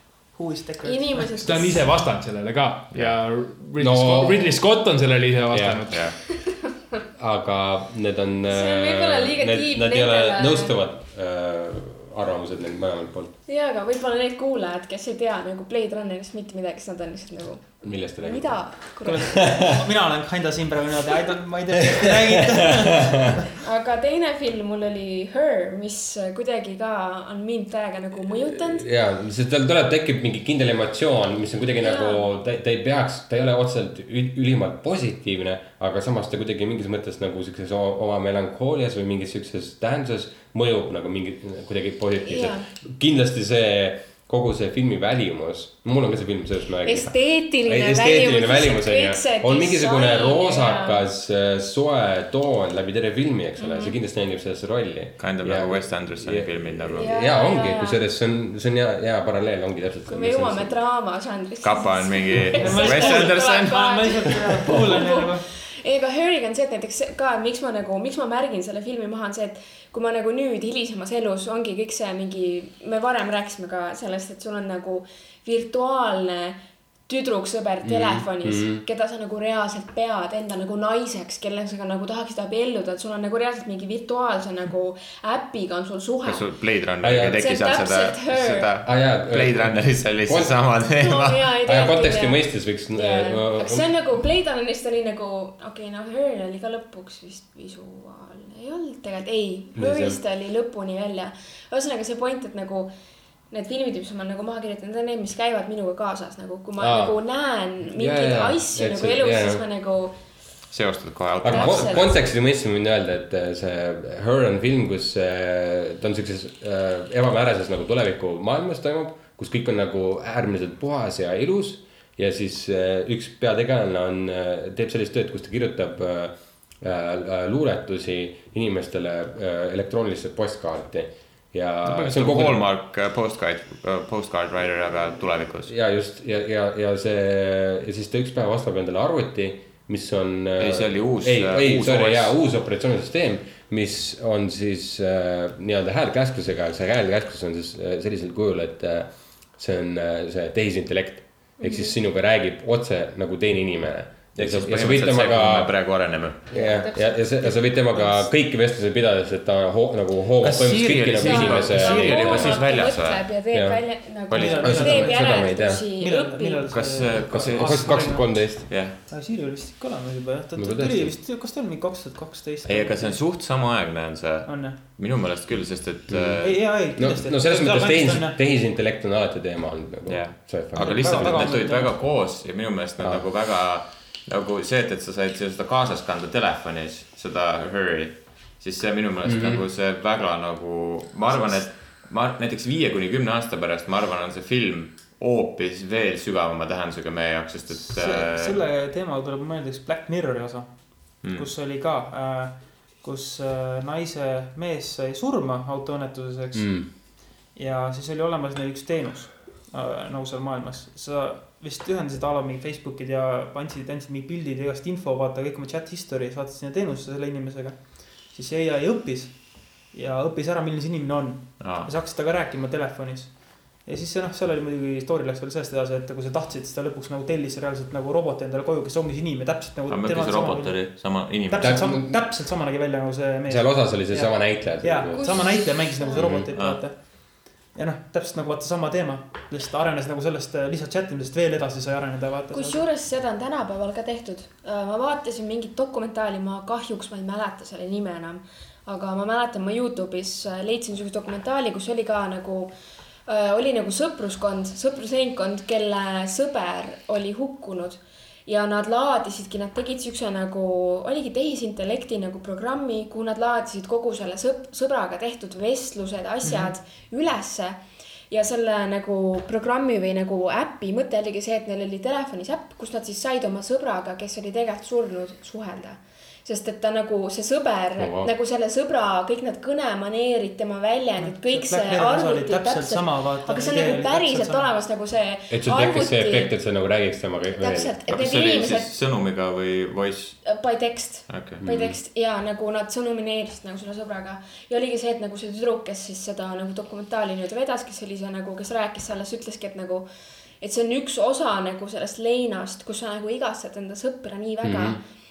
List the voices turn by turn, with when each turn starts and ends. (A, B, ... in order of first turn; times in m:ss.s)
0:00.3-0:01.4 A
0:00.8-0:01.8 B
0:01.4-0:06.0 C
0:03.8-0:04.6 D
0:05.5-0:05.8 D
0:05.9-0:06.2 E
0:07.2-0:13.3 D
0:08.5-0:10.7 B
0:13.5-0:19.8 B
0:17.8-0:19.6 D
0:19.0-0:23.3 A
0:23.6-0:28.8 B
0:28.3-1:00.8 D
0:31.8-0:32.2 B
0:42.3-0:42.7 B
0:46.8-0:51.0 B
0:53.6-0:54.0 B
0:55.2-0:57.1 E
0:57.0-0:58.0 B
1:00.1-1:26.4 B
1:01.6-1:03.8 E
1:02.5-1:05.5 A
1:17.8-1:18.8 D
1:26.2-1:31.5 E
1:27.0-1:27.5 D
1:27.4-1:28.7 B
1:28.8-1:30.8 D
1:31.0-1:42.9 B
1:31.6-1:33.9 D
1:39.7-1:40.2 D
1:43.5-1:50.2 B
1:46.8-1:47.2 D
1:47.8-1:49.6 D
1:50.7-1:52.1 E
1:51.4-2:12.7 D
1:51.4-1:52.1 B
2:11.8-2:15.7 E
2:15.6-2:35.7 D
2:20.6-2:22.3 E
2:31.6-2:31.9 B
2:34.4-2:36.4 E
2:36.5-2:42.6 D
2:36.5-2:38.2 B
2:40.4-2:43.3 E
2:41.2-2:46.8 B
2:43.5-2:44.1 D
2:44.3-2:44.7 E
2:44.4-2:53.2 A
2:44.6-2:45.9 D
2:46.7-2:49.0 E
2:47.4-2:48.8 D
2:50.6-2:51.2 D
2:52.6-2:56.6 E
2:54.4-2:54.8 A
2:56.1-3:01.6 D
2:56.4-2:58.4 A
3:00.0-3:18.6 E
3:00.7-3:01.9 A
3:09.2-3:09.6 D
3:17.8-3:26.9 A
3:21.2-3:21.5 E
3:26.5-3:26.9 D
3:27.5-4:02.8 A
3:41.6-3:41.9 E
3:49.9-3:51.9 E
3:51.6-3:52.1 D
3:53.5-3:55.5 D
3:55.1-3:56.4 B
3:56.2-3:56.5 D
3:56.5-3:56.8 E
4:02.5-4:12.7 B
4:13.3-4:46.5 B
4:26.4-4:26.7 A
4:38.0-4:38.3 D
4:41.2-4:44.7 A
4:45.5-4:48.0 D
4:47.6-4:48.9 B
4:48.1-4:50.4 E
4:50.4-5:00.1 B
4:51.3-4:51.6 E
4:51.6-4:52.0 D
5:00.6-5:05.0 B
5:04.6-5:05.0 D